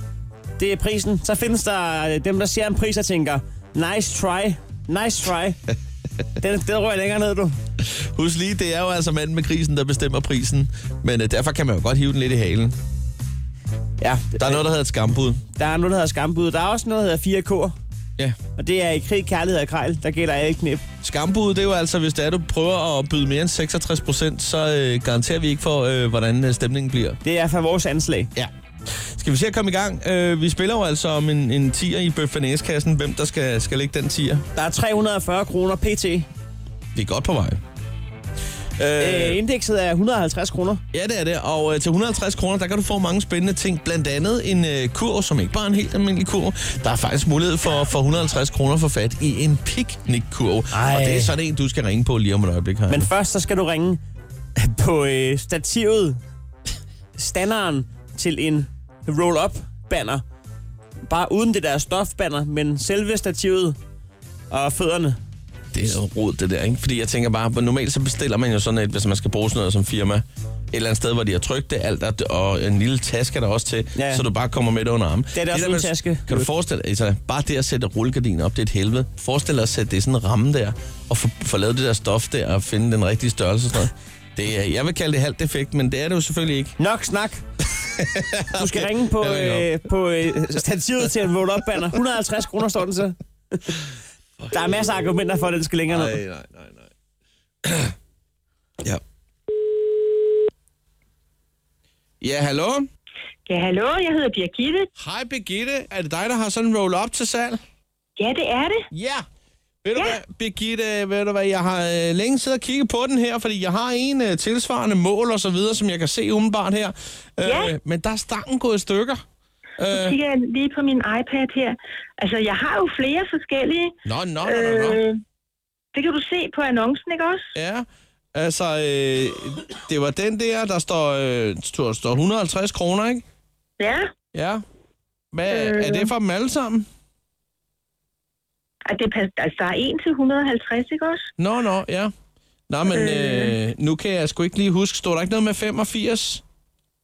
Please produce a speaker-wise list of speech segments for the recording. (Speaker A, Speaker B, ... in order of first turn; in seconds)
Speaker A: 0.6-5.6, 6.4-7.5, 14.0-14.6, 15.6-17.7, 18.6-20.8, 27.2-28.3, 34.5-36.3, 39.0-40.8, 50.7-51.4, 52.9-54.0, 54.6-56.2, 57.1-60.2, 61.1-63.8, 64.5-65.2, 74.0-74.2, 75.3-76.5, 86.8-87.4, 88.5-93.6, 94.5-96.2
Speaker B: 7.8-12.8, 14.4-15.4, 21.0-27.2, 29.2-34.4, 36.9-37.6, 38.8-39.4, 40.9-53.1, 65.7-86.8, 88.0-89.7, 94.4-94.8, 95.9-96.9, 97.7-97.9, 102.2-102.8, 105.0-107.6, 108.9-109.2, 109.8-119.2, 119.8-120.2, 124.0-125.0, 127.5-133.2, 134.3-134.6, 135.3-136.9, 141.4-142.1, 142.7-146.4
Speaker C: 103.5-104.9, 108.2-108.8, 117.4-117.7, 119.9-123.9, 124.4-125.2, 125.9-127.5, 133.8-134.1, 135.5-136.1, 138.9-141.3, 142.9-143.6